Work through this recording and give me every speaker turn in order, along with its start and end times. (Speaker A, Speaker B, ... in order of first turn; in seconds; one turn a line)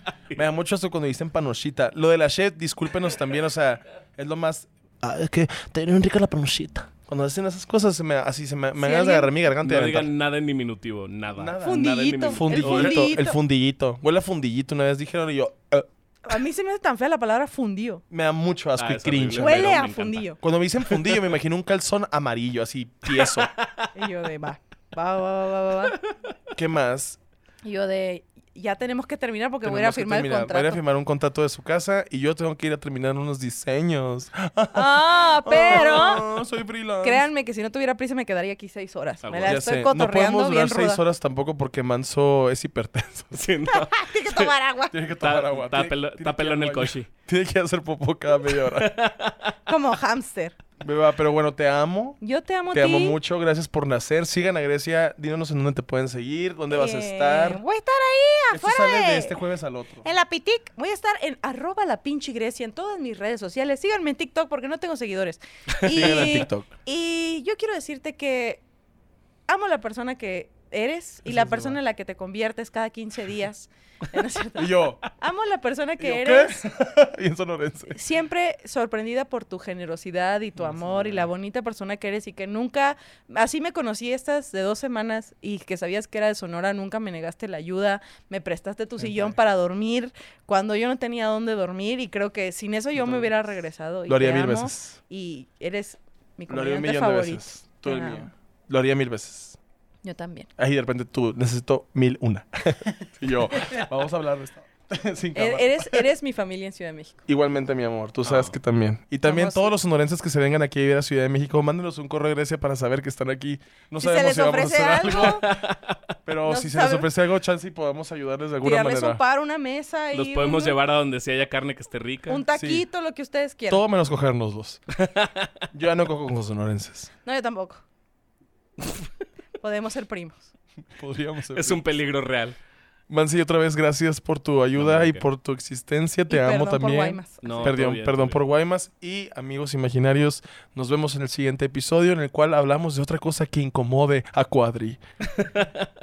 Speaker A: 0.3-10.1
Speaker B: 8.8-9.3
Speaker C: 9.6-13.2
Speaker A: 11.3-15.9
Speaker B: 11.6-13.3
Speaker B: 16.2-18.0
Speaker A: 18.1-19.7
Speaker C: 18.8-20.3
Speaker B: 19.3-20.4
Speaker A: 20.4-23.5
Speaker C: 20.8-21.3
Speaker C: 23.1-23.9
Speaker B: 23.9-26.0
Speaker C: 26.1-26.3
Speaker A: 26.5-27.2
Speaker B: 27.6-30.8
Speaker A: 29.6-37.2
Speaker B: 34.7-36.3
Speaker B: 37.0-41.0
Speaker C: 39.2-39.6
Speaker A: 39.4-43.4
Speaker C: 43.3-44.5
Speaker B: 43.7-45.0
Speaker A: 44.9-48.9
Speaker C: 45.2-47.1
Speaker C: 48.5-49.5
Speaker B: 49.7-50.5
Speaker A: 50.8-52.2
Speaker B: 52.2-53.2
Speaker A: 52.7-57.6
Speaker B: 56.7-59.4
Speaker A: 58.5-60.1
Speaker B: 60.0-68.6
Speaker C: 65.8-66.5
Speaker A: 65.9-66.7
Speaker B: 69.5-76.6
Speaker A: 71.3-71.8
Speaker A: 74.5-75.0
Speaker A: 76.0-78.0
Speaker B: 77.9-98.3
Speaker A: 80.6-81.2
Speaker A: 89.0-89.3
Speaker A: 93.0-93.3
Speaker A: 94.1-95.0
Speaker A: 96.5-99.6
Speaker B: 100.0-100.5
Speaker A: 100.6-106.0
Speaker B: 105.3-107.2
Speaker A: 107.3-115.5
Speaker C: 108.2-108.5
Speaker B: 109.2-109.7
Speaker B: 114.0-115.5
Speaker C: 115.1-116.0
Speaker A: 116.2-119.2
Speaker B: 116.4-117.1
Speaker B: 118.6-120.8
Speaker C: 120.1-122.4
Speaker B: 122.3-123.8
Speaker A: 122.5-122.8
Speaker A: 123.7-124.8
Speaker C: 124.9-125.5
Speaker A: 125.7-127.1
Speaker B: 127.2-127.8
Speaker B: 129.6-130.5
Speaker A: 130.9-131.9
Speaker C: 131.5-132.6
Speaker A: 133.1-145.0
Speaker C: 134.8-135.2
Speaker B: 136.3-137.7
Speaker C: 137.4-138.4
Speaker C: 145.3-145.9